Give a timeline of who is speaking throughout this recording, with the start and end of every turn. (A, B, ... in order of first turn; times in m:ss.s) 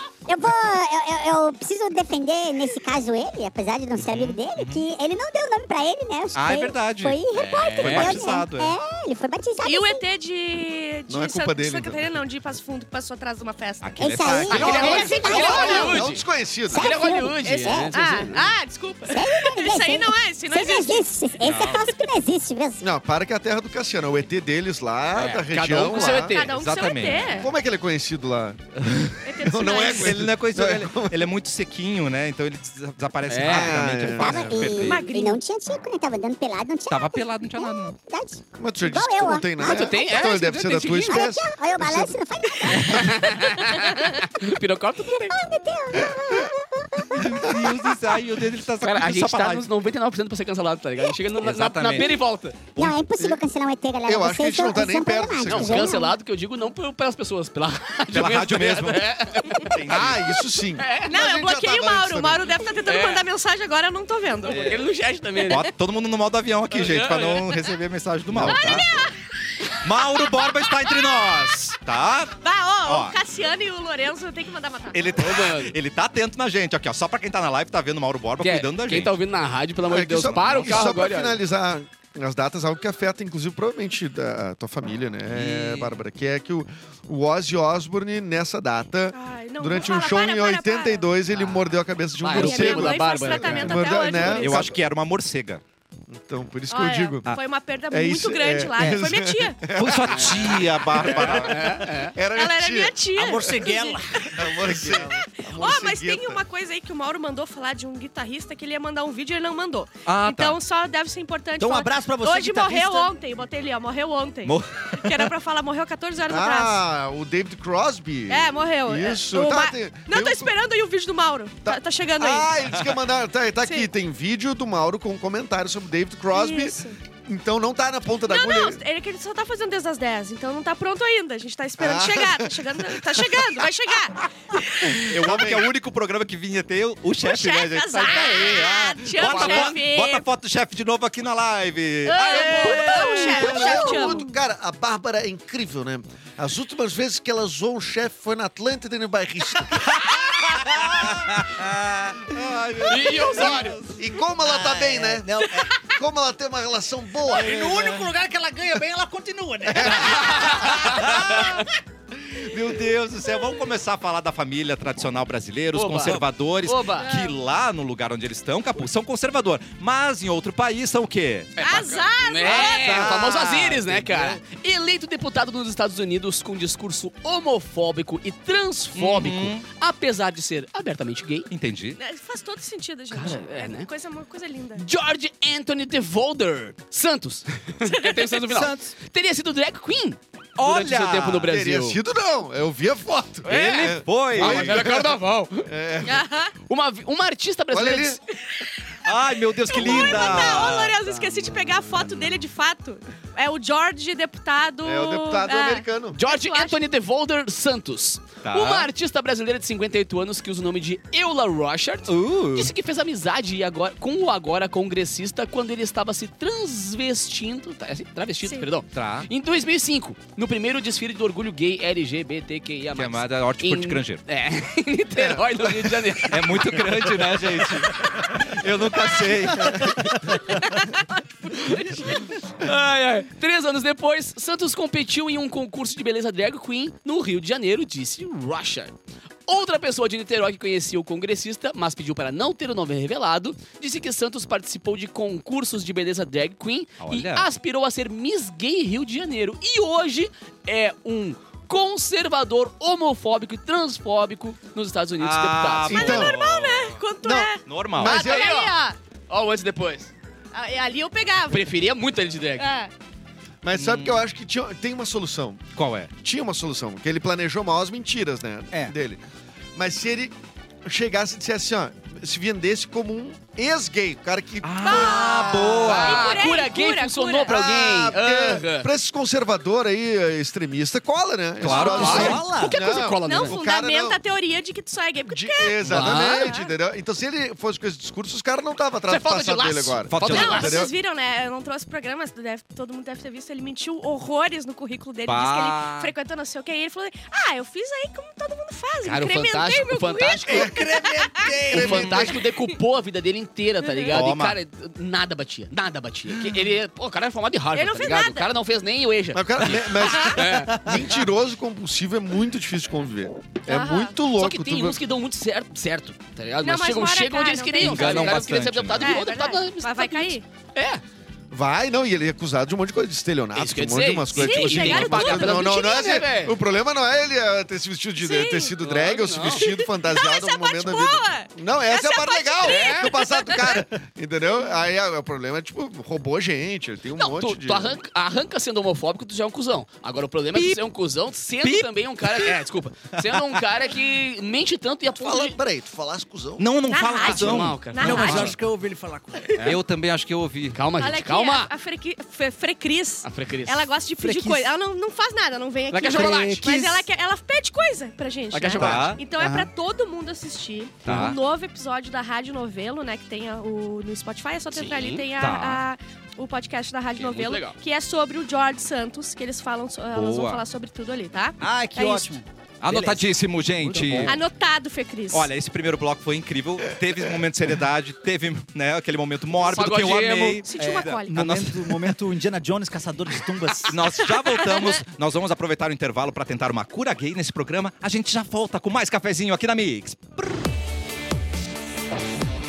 0:00.3-0:10.0 A
0:04.0-0:04.8 B
0:06.3-0:08.8 B
0:07.5-0:08.3 C
0:09.6-0:16.0 D
0:11.1-0:12.0 E
0:13.8-0:15.4 B
0:14.0-0:16.1 A
0:14.5-0:18.5 C
0:14.5-0:16.9 E
0:16.7-0:17.9 A
0:17.7-0:21.5 D
0:19.1-0:22.8 A
0:21.4-0:21.9 B
0:22.8-0:26.4 E
0:25.1-0:26.5 C
0:25.9-0:27.5 D
0:26.5-0:27.5 B
0:27.4-0:31.2 E
0:28.8-0:35.1 B
0:29.2-0:30.2 D
0:33.3-0:33.8 C
0:33.4-0:34.7 E
0:34.2-0:40.2 A
0:34.7-0:35.4 D
0:36.9-0:38.0 B
0:38.6-0:42.2 E
0:39.6-0:41.2 C
0:41.0-0:43.8 A
0:42.7-0:45.4 C
0:45.1-0:48.0 A
0:47.1-0:49.7 B
0:48.8-0:52.6 C
0:51.4-0:52.1 B
0:52.8-0:56.2 A
0:53.2-0:53.4 E
0:54.0-0:56.0 E
0:55.4-0:59.8 C
0:58.1-1:00.4 B
0:59.9-1:02.5 E
1:00.8-1:01.1 C
1:01.1-1:04.7 D
1:02.9-1:03.2 C
1:04.5-1:05.7 C
1:04.5-1:04.9 B
1:05.5-1:08.9 B
1:06.7-1:07.6 C
1:08.3-1:09.0 C
1:08.5-1:09.1 D
1:09.8-1:13.2 B
1:10.2-1:11.1 D
1:12.4-1:15.1 D
1:14.9-1:19.2 B
1:15.2-1:15.8 C
1:18.4-1:21.4 C
1:19.8-1:34.8 E
1:20.2-1:21.0 B
1:25.3-1:26.0 B
1:29.1-1:31.1 D
1:31.3-1:31.7 C
1:32.2-1:33.9 C
1:32.3-1:34.7 D
1:34.2-1:35.6 B
1:36.1-1:37.3 E
1:36.7-1:39.6 D
1:37.9-1:41.6 E
1:39.7-1:41.9 B
1:40.1-1:42.2 C
1:42.1-1:43.0 E
1:42.3-1:44.1 D
1:43.2-1:45.0 F
1:44.3-1:46.4 E
1:45.3-1:56.8 D
1:50.1-1:50.6 B
1:51.6-1:53.1 F
1:54.4-1:55.2 B
1:56.3-2:00.5 E
1:58.3-2:02.5 D
2:01.6-2:08.8 E
2:03.6-2:03.9 D
2:06.3-2:07.0 D
2:08.3-2:15.0 D
2:11.8-2:13.5 E
2:14.9-2:15.7 E
2:15.1-2:23.7 B
2:17.2-2:20.3 D
2:19.2-2:19.7 E
2:22.1-2:24.3 D
2:22.3-2:30.2 E
2:22.6-2:23.7 F
2:30.0-2:34.0 B
2:30.1-2:32.3 F
2:32.8-2:33.8 C
2:34.0-2:37.7 E
2:34.4-2:35.7 F
2:37.3-2:41.1 F
2:37.7-2:38.0 B
2:39.7-2:40.8 E
2:40.1-2:41.7 B
2:40.1-2:41.6 C
2:42.4-2:51.5 B
2:42.5-2:42.8 E
2:45.7-2:47.1 C
2:47.0-2:47.4 D
2:51.6-3:01.5 C
2:51.6-2:53.2 D
2:52.4-2:54.4 B
2:59.0-2:59.7 B
3:01.5-3:02.0 B
3:02.0-3:04.8 D
3:03.1-3:03.9 C
3:04.8-3:12.0 C
3:07.8-3:08.4 D
3:08.5-3:08.9 F
3:10.6-3:11.5 B
3:11.5-3:15.1 E
3:13.4-3:15.7 C
3:13.5-3:15.0 B
3:15.7-3:16.2 E
3:16.0-3:16.5 D
3:16.7-3:18.2 C
3:17.7-3:18.2 E
3:19.0-3:21.0 B
3:19.7-3:26.8 D
3:19.8-3:22.3 C
3:24.8-3:26.2 E
3:26.1-3:47.1 C
3:28.4-3:28.9 B
3:32.1-3:32.7 B
3:38.9-3:39.3 B
3:42.9-3:44.2 B
3:45.2-3:46.2 E
3:46.3-3:50.4 B
3:50.6-3:52.3 D
3:52.6-3:58.9 C
3:59.5-4:16.1 C
4:07.0-4:07.5 B
4:15.2-4:17.0 B
4:15.9-4:16.4 E
4:15.9-4:19.0 D
4:17.2-4:18.6 E
4:17.6-4:18.2 B
4:18.0-4:18.8 C
4:19.3-4:20.1 C
4:20.5-4:21.6 D
4:21.5-4:22.7 C
4:22.6-4:22.9 D
4:23.6-4:29.2 E
4:23.8-4:24.2 B
4:25.8-4:26.1 B
4:29.8-4:35.5 E
4:34.6-4:36.4 B
4:34.8-4:37.6 D
4:35.8-4:38.9 C
4:37.5-4:44.2 E
4:41.6-4:42.4 B
4:41.6-4:42.3 D
4:41.8-4:43.6 C
4:41.9-4:42.8 F
4:43.2-4:46.7 D
4:45.3-4:50.9 E
4:45.8-4:46.5 C
4:49.1-4:50.9 C
4:50.1-4:50.7 B
4:50.3-5:01.5 D
4:55.3-4:56.1 B
4:59.0-5:00.7 C
5:00.4-5:02.3 F
5:01.7-5:11.2 C
5:01.7-5:02.4 E
5:03.8-5:04.2 D
5:04.1-5:04.6 B
5:07.7-5:08.5 D
5:09.3-5:15.0 E
5:10.0-5:10.4 D
5:13.7-5:14.2 D
5:14.3-5:21.0 C
5:16.6-5:20.4 D
5:17.8-5:19.2 B
5:21.5-5:38.0 E
5:23.6-5:26.6 C
5:24.3-5:26.2 D
5:28.2-5:28.8 D
5:28.8-5:29.7 C
5:29.5-5:33.9 D
5:32.6-5:33.1 C
5:37.2-5:45.6 C
5:41.6-5:42.6 B
5:45.2-5:46.7 E
5:46.6-5:48.6 B
5:46.9-5:48.6 D
5:47.2-5:48.5 C
5:48.0-5:49.8 F
5:49.6-5:50.8 B
5:50.7-5:51.7 C
5:51.0-6:12.4 D
5:53.2-5:53.9 C
5:54.2-5:54.7 F
5:55.9-5:56.7 C
5:56.1-5:57.1 F
5:58.5-5:59.2 C
5:58.8-5:59.2 B
5:59.4-5:59.7 F
6:01.0-6:01.4 B
6:04.7-6:05.3 C
6:05.4-6:05.8 B
6:07.2-6:07.8 C
6:10.1-6:10.6 B
6:11.6-6:14.4 F
6:12.8-6:14.4 B
6:14.3-6:15.5 D
6:15.3-6:22.0 B
6:19.6-6:20.6 C
6:20.6-6:21.4 D
6:20.8-6:24.0 F
6:23.9-6:30.5 B